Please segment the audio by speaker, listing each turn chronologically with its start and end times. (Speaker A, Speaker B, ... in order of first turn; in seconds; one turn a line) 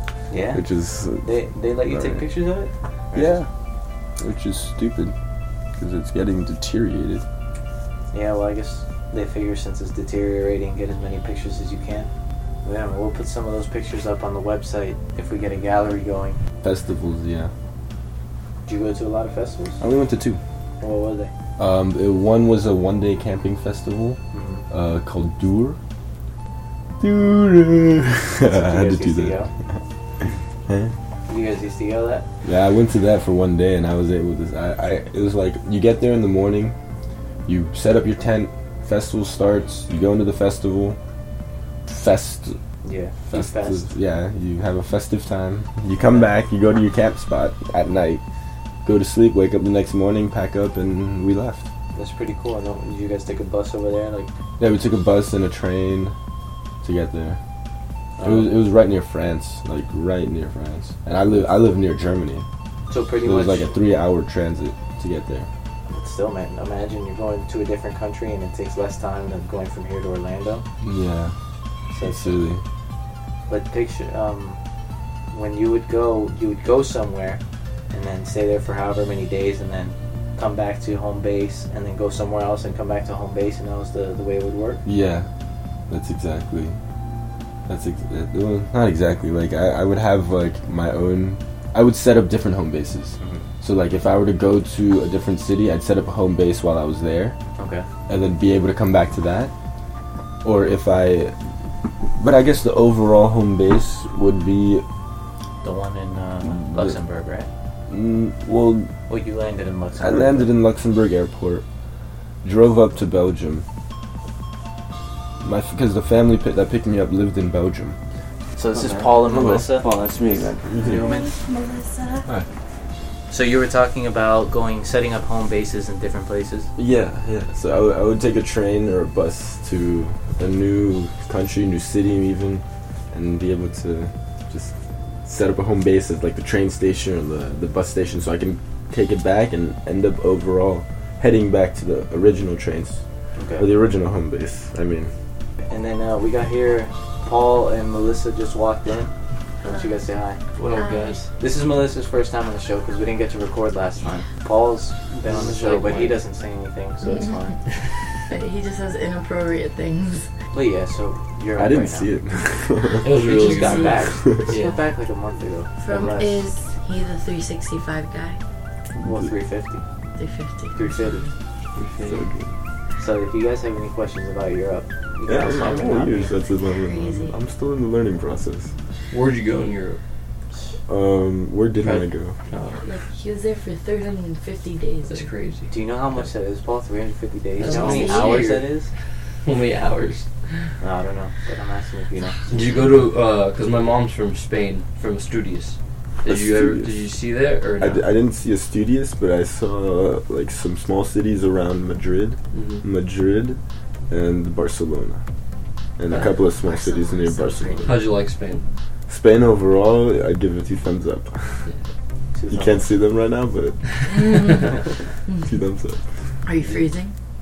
Speaker A: 0.3-0.6
Speaker B: 0.5-2.2
Speaker A: 1.2-3.4
Speaker B: 3.1-3.5
Speaker B: 4.2-5.2
Speaker B: 5.8-7.2
Speaker A: 8.1-12.1
Speaker A: 12.6-16.4
Speaker B: 16.6-17.5
Speaker A: 18.7-19.8
Speaker B: 19.8-20.4
Speaker A: 20.8-21.3
Speaker B: 21.6-24.2
Speaker A: 24.3-24.6
Speaker B: 24.7-25.8
Speaker B: 27.0-29.5
Speaker A: 28.4-29.5
Speaker B: 30.7-30.9
Speaker A: 31.3-32.3
Speaker B: 32.4-36.8
Speaker B: 37.5-41.0
Speaker B: 41.9-42.6
Speaker A: 42.8-43.9
Speaker B: 43.3-48.2
Speaker A: 46.0-46.3
Speaker B: 48.9-51.7
Speaker A: 52.0-54.3
Speaker B: 54.6-56.1
Speaker B: 56.8-57.4
Speaker A: 58.2-58.5
Speaker B: 58.2-62.5
Speaker A: 62.9-63.8
Speaker B: 63.2-65.5
Speaker A: 65.9-70.7
Speaker B: 70.8-71.3
Speaker A: 71.9-72.4
Speaker B: 72.0-72.6
Speaker A: 73.5-74.6
Speaker A: 75.3-84.8
Speaker B: 84.8-85.3
Speaker B: 85.9-86.8
Speaker B: 87.7-97.4
Speaker A: 93.2-93.5
Speaker A: 97.6-97.9
Speaker B: 98.1-99.5
Speaker B: 100.4-101.3
Speaker B: 102.2-104.8
Speaker A: 105.6-107.5
Speaker B: 106.5-107.0
Speaker B: 107.9-108.9
Speaker A: 109.1-110.5
Speaker B: 110.0-111.7
Speaker B: 112.4-113.6
Speaker B: 115.4-118.0
Speaker A: 118.6-119.9
Speaker C: 118.7-120.7
Speaker B: 119.2-119.7
Speaker B: 120.7-121.1
Speaker A: 120.8-121.3
Speaker D: 120.8-122.3
Speaker A: 123.3-126.7
Speaker B: 126.8-134.7
Speaker B: 135.2-143.0
Speaker A: 143.4-143.7
Speaker B: 143.6-145.1
Speaker A: 145.7-149.1
Speaker D: 149.6-150.0
Speaker A: 149.6-150.4
Speaker C: 150.6-151.3
Speaker D: 150.7-151.2
Speaker A: 151.4-157.6
Speaker C: 155.2-156.2
Speaker D: 157.0-157.4
Speaker D: 158.3-160.3
Speaker A: 160.5-162.1
Speaker B: 161.6-163.2
Speaker C: 163.0-164.8
Speaker A: 163.2-166.4
Speaker D: 163.6-163.9
Speaker D: 165.8-168.4
Speaker B: 169.0-169.3
Speaker A: 169.0-169.8
Speaker D: 170.2-171.3
Speaker A: 170.8-171.3
Speaker C: 171.8-172.2
Speaker B: 172.0-172.5
Speaker A: 173.0-176.3
Speaker B: 175.3-178.7
Speaker D: 175.9-177.4
Speaker C: 179.1-180.0
Speaker B: 180.9-182.3
Speaker C: 181.8-182.9
Speaker D: 182.8-185.3
Speaker C: 185.1-186.3
Speaker A: 185.7-188.9
Speaker C: 187.6-188.7
Speaker D: 187.6-188.6
Speaker C: 189.4-190.7
Speaker A: 190.8-192.4
Speaker C: 192.5-198.0
Speaker B: 196.2-196.9
Speaker B: 197.8-203.6
Speaker C: 202.5-202.8
Speaker B: 204.1-205.2
Speaker B: 206.0-208.0
Speaker D: 206.6-207.9
Speaker C: 207.8-208.7
Speaker B: 209.1-211.7
Speaker A: 212.3-212.9
Speaker B: 212.5-216.4
Speaker D: 214.1-214.8
Speaker D: 216.4-217.2